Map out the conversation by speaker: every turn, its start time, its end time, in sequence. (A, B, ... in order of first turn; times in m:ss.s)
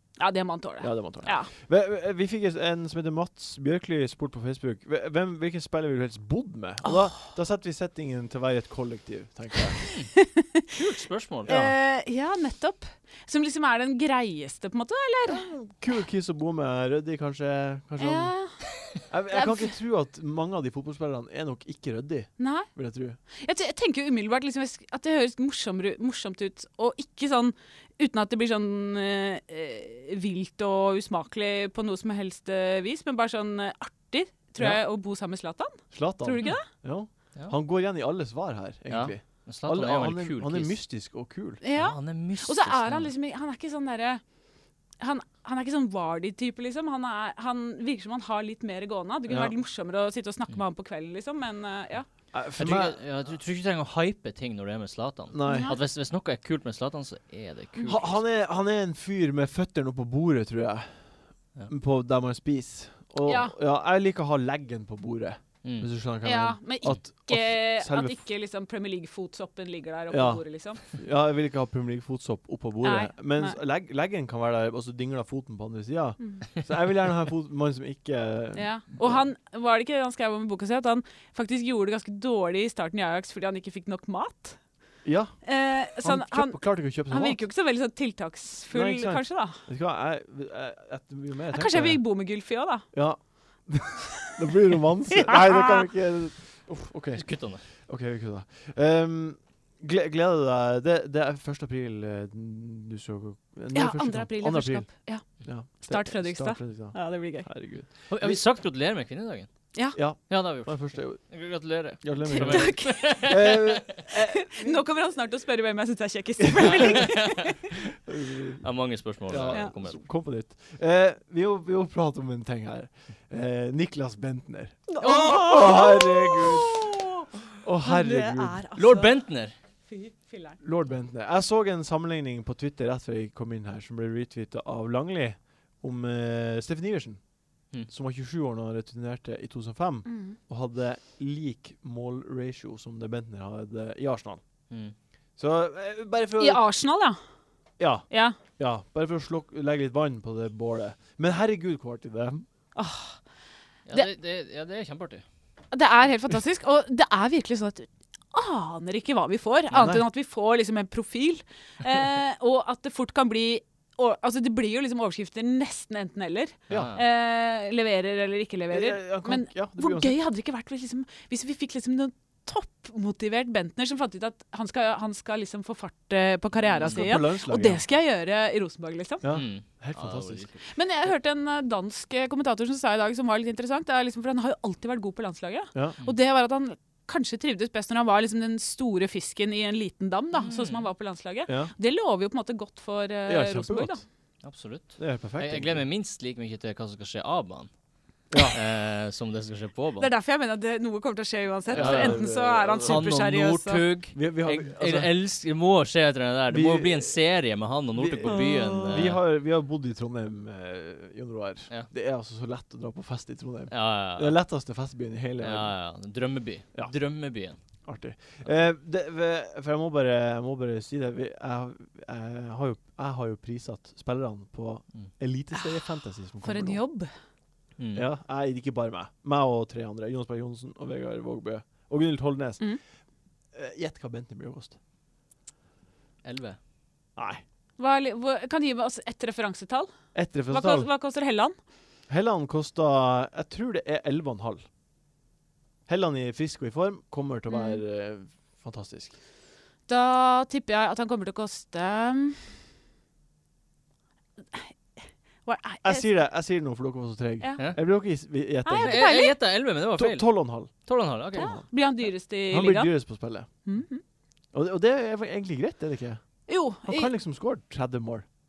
0:00.2-0:01.5 A
0:00.8-0:09.8 B
0:09.7-0:10.6 A
0:09.9-0:10.1 C
0:10.7-0:11.5 C
0:11.5-0:11.8 B
0:11.5-0:15.5 A
0:15.3-0:18.3 B
0:18.0-0:18.6 A
0:19.1-0:23.2 B
0:19.3-0:19.7 A
0:22.4-0:22.7 A
0:23.3-0:36.7 A
0:34.6-0:34.8 B
0:35.9-0:41.6 B
0:38.9-0:40.8 C
0:41.6-0:44.2 A
0:41.8-0:43.1 C
0:45.0-0:52.1 A
0:49.3-0:49.5 B
0:52.3-0:53.0 B
0:52.6-0:58.2 C
0:55.3-0:55.7 B
0:55.5-0:55.8 A
0:57.8-0:58.1 A
0:57.9-1:01.0 B
1:01.7-1:08.2 B
1:03.2-1:03.5 A
1:05.6-1:05.9 C
1:06.2-1:10.8 A
1:10.1-1:19.2 B
1:12.8-1:13.6 A
1:18.5-1:24.6 A
1:25.0-1:27.4 B
1:25.4-1:29.6 A
1:28.7-1:32.0 B
1:31.5-1:32.8 A
1:32.9-1:48.4 B
1:35.2-1:35.9 A
1:37.2-1:37.6 C
1:43.7-1:47.5 A
1:48.1-1:49.5 C
1:49.9-1:51.4 B
1:50.1-1:54.0 C
1:52.0-1:54.8 B
1:52.2-1:53.5 A
1:54.1-1:57.5 A
1:56.4-1:56.9 B
1:56.6-1:57.5 C
1:58.0-1:58.6 B
1:58.6-2:00.0 C
1:59.3-2:06.8 B
2:04.9-2:07.3 A
2:07.6-2:08.6 B
2:07.8-2:09.2 A
2:08.7-2:09.5 C
2:09.9-2:10.6 A
2:10.6-2:17.2 B
2:17.9-2:24.4 B
2:20.0-2:20.4 A
2:25.4-2:26.6 B
2:26.4-2:27.2 A
2:27.8-2:32.4 B
2:28.1-2:28.4 A
2:32.7-2:33.2 A
2:33.8-2:35.2 C
2:35.7-2:59.3 A
2:39.7-2:40.0 B
2:46.7-2:47.0 C
2:48.7-2:50.2 B
2:56.7-2:57.0 C
2:56.8-2:57.8 B
2:59.2-3:00.5 B
2:59.3-3:00.6 C
3:00.7-3:14.0 A
3:10.4-3:10.9 C
3:11.5-3:11.7 B
3:13.3-3:14.0 B
3:14.4-3:17.7 C
3:15.0-3:15.8 B
3:18.3-3:18.6 B
3:18.4-3:20.1 C
3:20.0-3:23.8 A
3:21.7-3:23.1 B
3:21.7-3:22.2 C
3:22.8-3:29.2 C
3:24.1-3:25.1 B
3:26.5-3:27.2 B
3:27.9-3:35.7 B
3:28.2-3:29.0 A
3:33.7-3:34.4 C
3:35.4-3:37.6 C
3:37.8-3:46.8 B
3:46.4-3:47.1 A
3:47.8-3:48.0 C
3:47.9-3:52.7 B
3:53.5-3:54.8 B
3:56.2-3:56.6 C
3:57.2-3:57.4 B
3:57.8-3:59.9 A
4:00.1-4:00.9 B
4:00.5-4:01.6 A
4:02.1-4:04.6 B
4:05.9-4:09.1 B
4:07.5-4:07.8 A
4:09.9-4:12.5 A
4:14.5-4:16.1 A
4:15.8-4:19.0 B
4:17.4-4:17.7 A
4:18.6-4:19.3 A
4:18.8-4:21.5 C
4:20.0-4:21.6 B
4:21.3-4:22.9 A
4:22.5-4:23.5 B
4:23.6-4:24.0 A
4:24.5-4:26.2 B
4:26.5-4:27.1 A
4:26.8-4:28.2 B